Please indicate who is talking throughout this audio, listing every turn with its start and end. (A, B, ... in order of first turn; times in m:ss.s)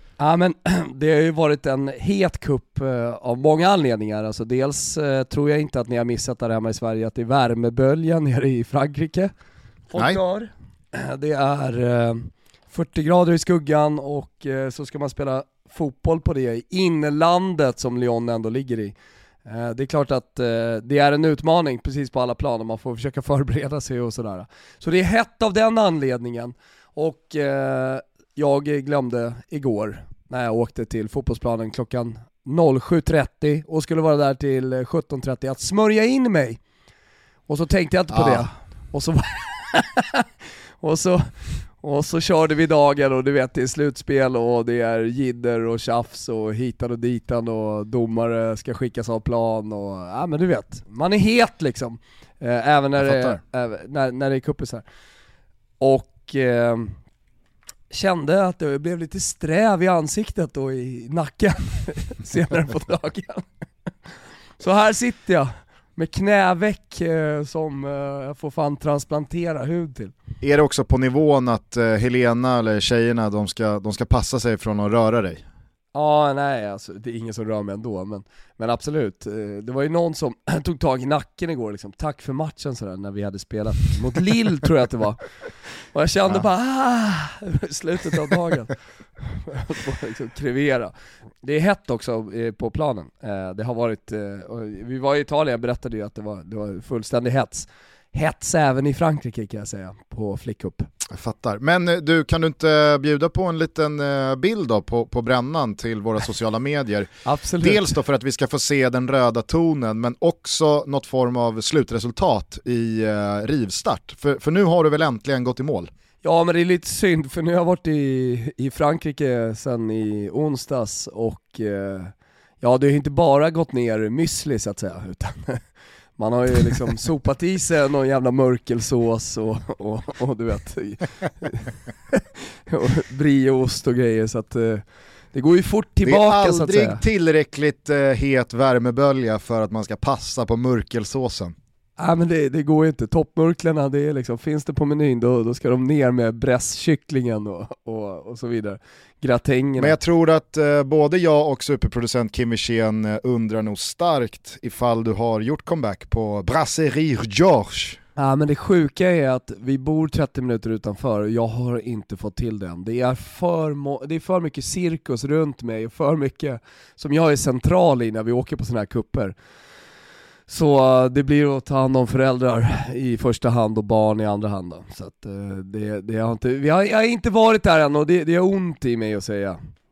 0:00.2-0:09.3 A
0:09.9-0:18.9 A
0:19.4-0:36.6 A
0:37.5-0:40.3 A
0:38.1-0:38.4 B
0:40.8-0:54.8 A
0:53.0-0:53.4 B
0:55.8-0:57.0 A
0:57.9-1:03.4 A
1:04.6-1:10.1 A
1:10.4-1:15.4 B
1:15.9-1:25.2 A
1:25.9-1:40.9 A
1:41.1-1:55.9 B
1:47.2-1:47.9 A
1:56.2-2:05.6 A
2:06.2-2:17.0 A
2:16.0-2:21.5 B
2:22.0-2:29.9 A
2:29.8-2:38.0 B
2:38.2-2:49.3 A
2:50.5-2:59.6 A